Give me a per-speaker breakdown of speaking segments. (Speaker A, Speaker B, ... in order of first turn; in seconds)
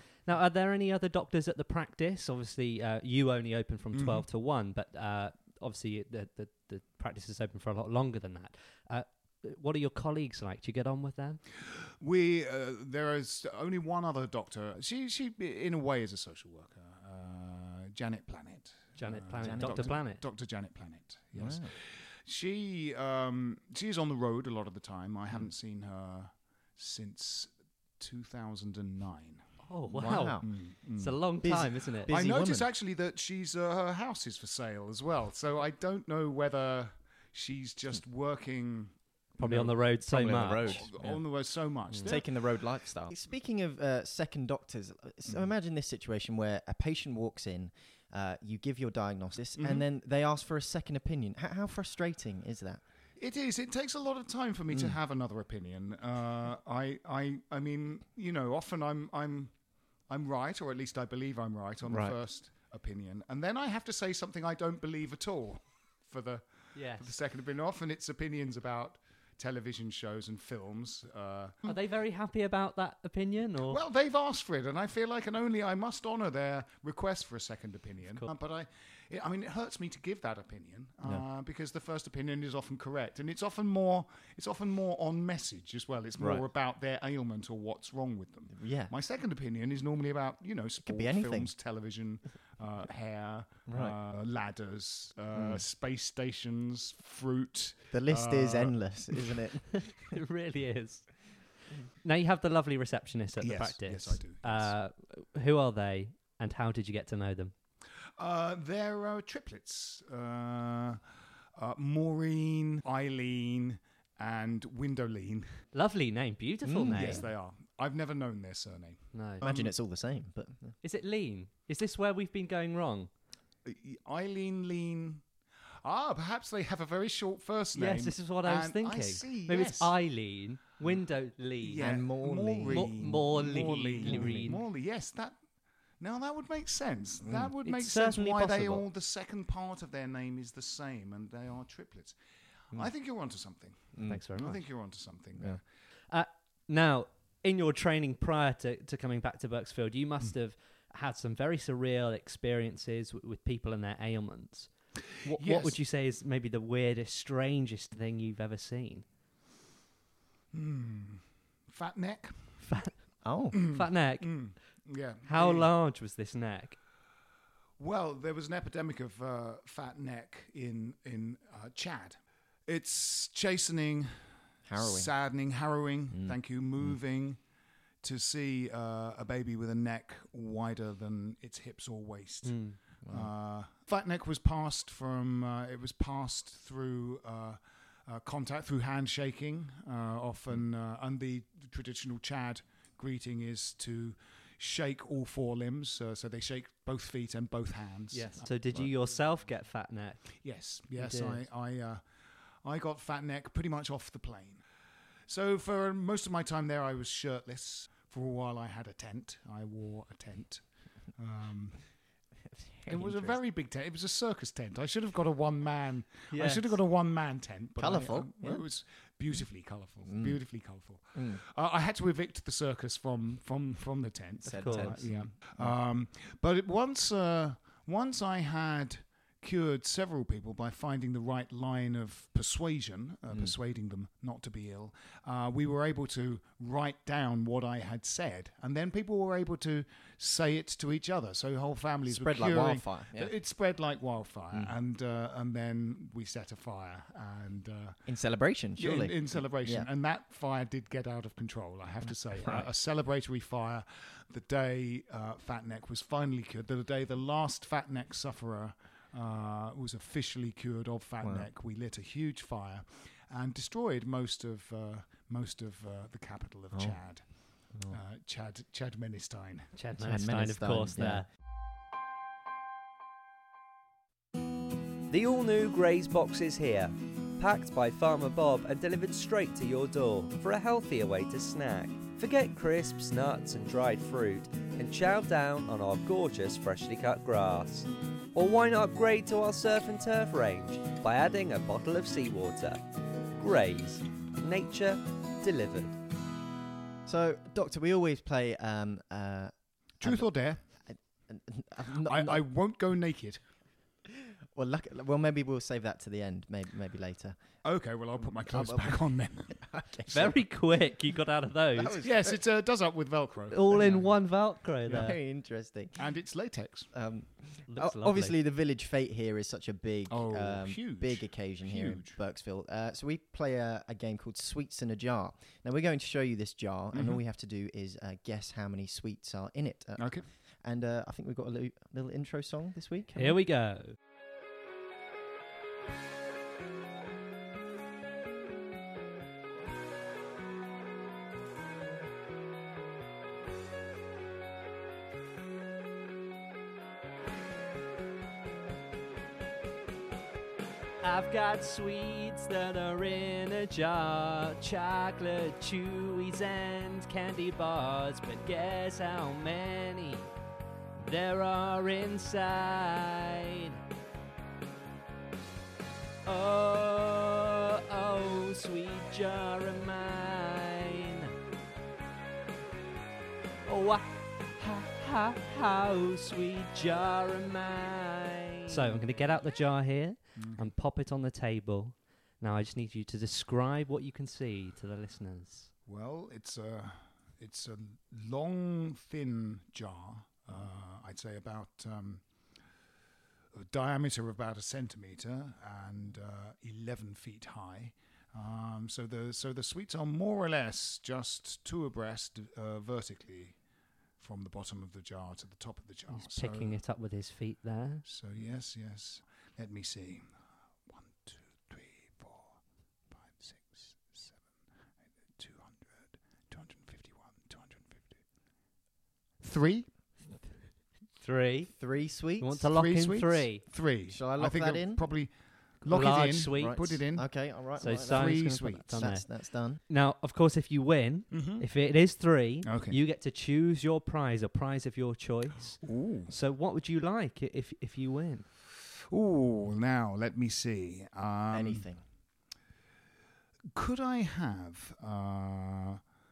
Speaker A: 0.2-11.4, 19.0-20.2, 29.7-32.1, 39.4-40.9, 66.8-67.1, 71.7-73.8, 100.0-101.1, 102.0-107.5, 115.7-117.2, 119.1-119.4, 120.8-123.1, 127.7-131.9, 132.7-134.6, 137.6-138.8, 144.1-144.6, 146.1-154.7, 155.2-159.1, 162.6-162.9, 163.7-164.4, 165.2-166.8, 182.4-182.8, 198.1-200.3, 201.0-201.4, 216.3-216.8, 224.6-225.0, 269.8-271.2, 310.1-311.9, 313.5-315.2, 317.7-318.3, 333.2-333.9, 351.0-360.3, 361.0-363.8, 366.2-371.3, 373.6-385.7, 406.1-408.0, 421.2-421.7, 422.4-423.6, 425.9-426.9, 427.8-429.2, 429.9-438.5
Speaker B: 3.9-4.2, 11.7-31.2, 32.1-39.8, 40.4-42.3, 49.6-49.8, 53.2-59.5, 60.1-66.4, 67.0-71.8, 73.6-99.3, 103.4-104.7, 108.2-111.0, 111.5-115.5, 116.9-119.7, 123.7-125.2, 125.8-129.9, 131.6-135.4, 136.0-142.2, 142.7-145.6, 155.2-155.8, 160.5-162.5, 163.5-165.7, 167.8-174.2, 174.8-177.4, 178.0-198.9, 200.4-202.0, 202.6-204.6, 205.3-210.6, 211.2-211.8, 212.9-248.0, 248.8-267.2, 267.9-269.7, 300.0-300.6, 302.0-303.4, 307.6-309.6, 311.9-313.9, 316.0-316.9, 320.1-322.2, 326.9-327.2, 330.0-330.2, 380.4-380.7, 385.9-392.2, 393.5-403.6, 404.2-406.8, 408.1-410.3, 410.9-412.6, 413.1-414.4, 415.4-418.2, 419.4-419.9, 422.7-427.2, 428.1-429.0, 431.3-431.7, 432.6-433.0, 435.8-436.3, 438.9-441.9, 443.7-446.0
Speaker C: 19.4-19.9, 21.4-21.7, 29.9-30.4, 31.4-32.7, 40.1-41.2, 42.0-52.8, 61.9-62.1, 86.2-86.4, 88.5-88.9, 90.8-91.5, 93.7-93.9, 95.3-95.6, 97.9-100.1, 116.7-117.2, 119.4-120.7, 131.8-133.1, 134.0-134.6, 143.9-144.2, 163.2-163.6, 174.7-175.1, 183.1-183.3, 212.5-213.4, 217.8-218.6, 220.1-220.4, 224.4-225.7, 242.1-243.3, 248.1-249.9, 270.0-271.2, 297.1-300.2, 300.8-302.4, 304.1-307.4, 308.4-310.4, 311.8-312.4, 313.7-314.1, 314.9-316.0, 316.9-330.1, 330.6-333.4, 421.8-422.6, 424.1-425.0, 426.5-429.8, 441.5-442.0
Speaker D: 275.1-292.8, 293.3-296.0